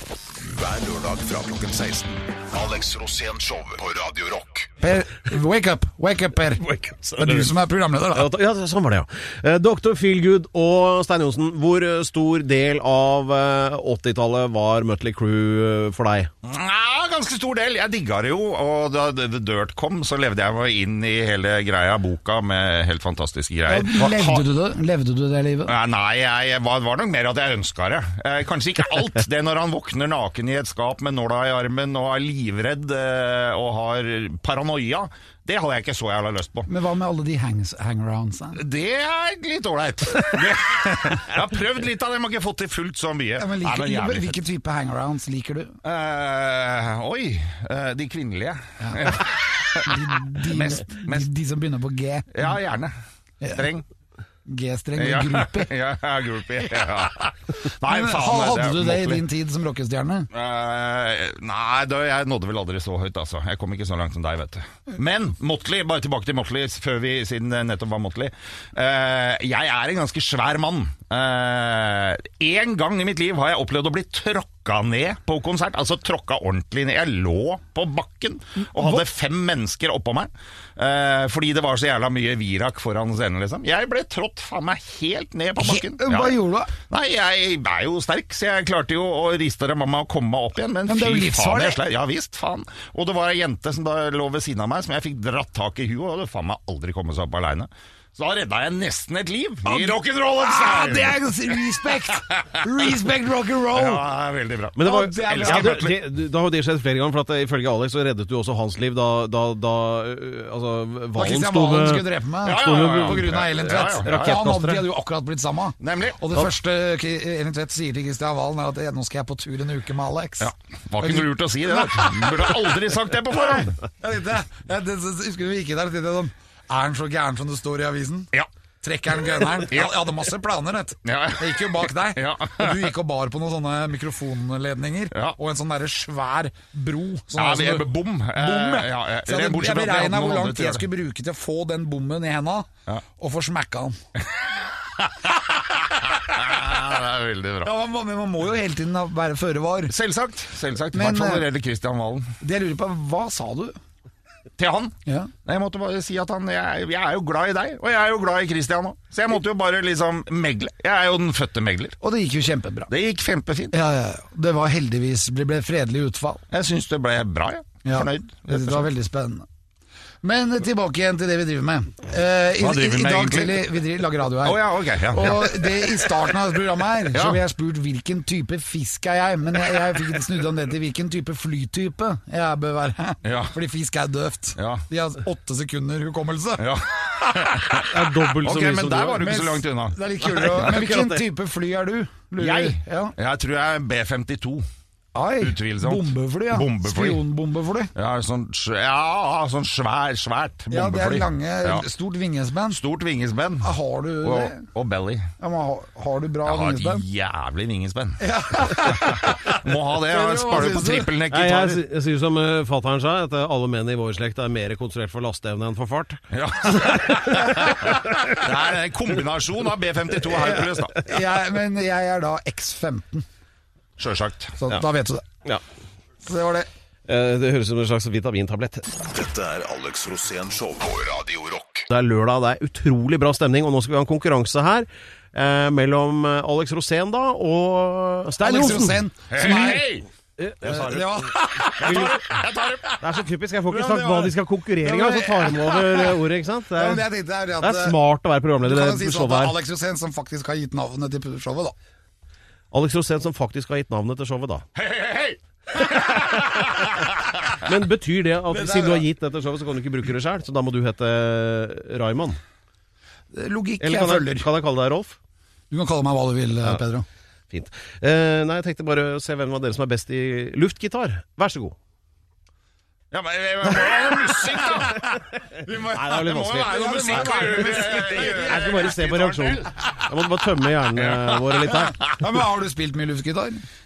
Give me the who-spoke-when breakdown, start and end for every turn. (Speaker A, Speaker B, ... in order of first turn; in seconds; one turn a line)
Speaker A: 0.4-4.7
Speaker B: 4.8-8.3
Speaker C: 6.6-7.5
Speaker C: 8.1-16.3
Speaker D: 16.4-24.5
Speaker B: 23.7-25.7
Speaker D: 25.7-36.7
Speaker B: 36.7-38.6
Speaker D: 38.6-44.4
Speaker B: 43.4-45.8
Speaker D: 45.8-51.3
Speaker B: 48.8-49.2
Speaker B: 49.8-52.5
Speaker D: 52.3-52.9
Speaker B: 53.4-53.7
Speaker D: 53.5-53.9
Speaker B: 54.5-55.7
Speaker D: 55.0-59.2
Speaker B: 57.9-60.3
Speaker D: 60.3-101.6
Speaker B: 78.8-79.0
Speaker B: 85.6-86.7
Speaker B: 90.9-91.8
Speaker B: 99.7-104.0
Speaker D: 102.3-102.6
Speaker D: 103.7-105.9
Speaker C: 104.8-114.9
Speaker B: 104.8-106.0
Speaker B: 111.2-128.3
Speaker D: 112.4-114.4
Speaker D: 115.8-116.2
Speaker D: 120.4-123.8
Speaker B: 128.8-144.0
Speaker D: 129.6-130.1
Speaker D: 131.1-132.9
Speaker D: 135.1-135.4
Speaker D: 137.3-140.9
Speaker D: 145.0-147.7
Speaker B: 147.6-149.9
Speaker D: 149.9-152.3
Speaker B: 150.9-151.5
Speaker B: 152.4-153.8
Speaker D: 154.6-162.0
Speaker B: 155.1-155.3
Speaker B: 162.0-162.9
Speaker D: 162.9-163.7
Speaker B: 163.7-166.4
Speaker D: 166.5-168.9
Speaker B: 167.8-169.5
Speaker B: 170.2-186.7
Speaker D: 172.6-173.8
Speaker D: 174.4-175.9
Speaker D: 177.1-177.4
Speaker D: 183.2-183.6
Speaker D: 184.6-184.8
Speaker D: 186.6-190.0
Speaker C: 187.8-189.3
Speaker B: 189.2-193.2
Speaker C: 190.2-191.2
Speaker D: 192.4-194.6
Speaker B: 195.2-197.9
Speaker D: 195.4-197.2
Speaker D: 197.9-201.8
Speaker B: 200.7-202.8
Speaker D: 202.7-205.3
Speaker B: 203.6-204.7
Speaker B: 205.4-207.1
Speaker D: 206.4-211.8
Speaker B: 208.2-211.1
Speaker C: 211.3-218.2
Speaker D: 216.3-221.0
Speaker B: 220.4-223.2
Speaker D: 224.0-224.6
Speaker B: 224.6-225.3
Speaker B: 226.2-226.7
Speaker C: 227.1-228.9
Speaker A: 229.0-231.9
Speaker C: 231.9-239.7
Speaker B: 238.4-239.9
Speaker D: 239.3-240.1
Speaker C: 240.4-242.2
Speaker D: 240.6-241.2
Speaker B: 240.6-242.4
Speaker D: 241.8-243.0
Speaker C: 243.0-247.1
Speaker B: 243.7-246.2
Speaker B: 246.8-248.0
Speaker C: 247.6-249.6
Speaker B: 248.6-251.7
Speaker C: 252.7-254.7
Speaker D: 254.8-257.5
Speaker C: 257.6-262.4
Speaker B: 258.5-259.0
Speaker B: 263.3-264.5
Speaker C: 263.8-265.2
Speaker B: 265.7-267.1
Speaker C: 267.5-271.8
Speaker D: 273.1-275.1
Speaker C: 273.7-275.0
Speaker D: 275.7-279.9
Speaker B: 275.7-278.9
Speaker C: 275.9-282.0
Speaker D: 281.0-281.6
Speaker B: 281.6-283.6